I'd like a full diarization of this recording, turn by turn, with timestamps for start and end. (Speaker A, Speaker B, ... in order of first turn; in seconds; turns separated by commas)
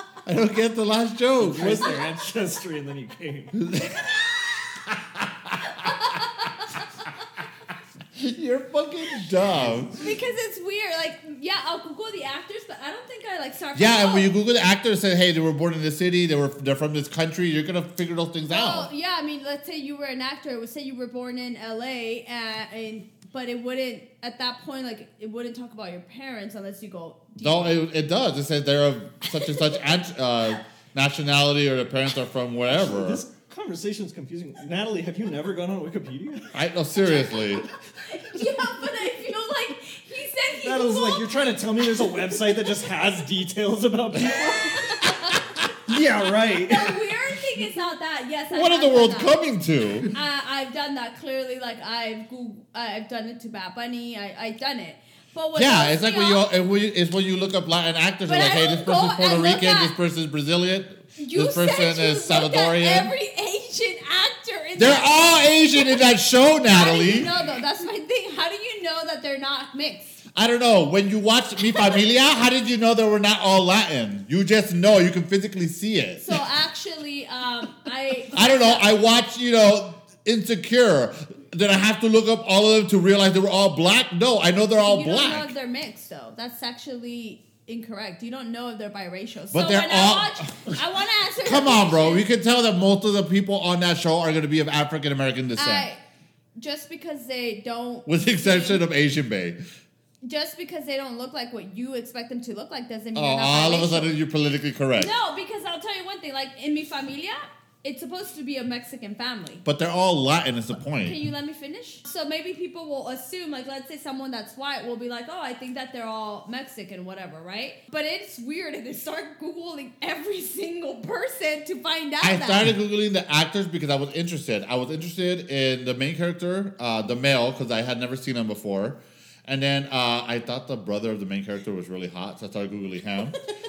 Speaker A: 0.2-2.0, Speaker B: 1.4-3.6, Speaker A: 3.5-4.0, Speaker A: 4.9-5.5, Speaker C: 5.7-7.0, Speaker A: 8.2-10.0, Speaker C: 9.9-14.3, Speaker A: 13.7-18.9, Speaker C: 18.5-27.8, Speaker A: 27.4-33.2, Speaker C: 29.3-29.9, Speaker B: 32.7-36.5, Speaker A: 36.5-37.6, Speaker C: 37.0-43.1, Speaker B: 40.6-45.0, Speaker C: 44.2-45.7, Speaker B: 45.7-47.1, Speaker C: 46.5-49.4, Speaker A: 48.5-50.1, Speaker C: 50.1-56.5, Speaker A: 55.5-63.1, Speaker C: 58.2-60.0, Speaker C: 61.2-66.2, Speaker A: 64.8-67.3, Speaker C: 66.7-70.2, Speaker A: 70.3-76.4, Speaker C: 76.2-79.0, Speaker A: 78.3-85.5, Speaker C: 84.8-92.3, Speaker A: 89.5-90.8, Speaker A: 91.4-95.9, Speaker C: 95.5-96.0, Speaker C: 96.5-98.8, Speaker A: 98.0-99.6, Speaker C: 100.2-104.1, Speaker A: 103.1-105.1, Speaker C: 105.0-109.6, Speaker A: 109.6-111.2, Speaker C: 111.0-122.7, Speaker A: 122.2-133.4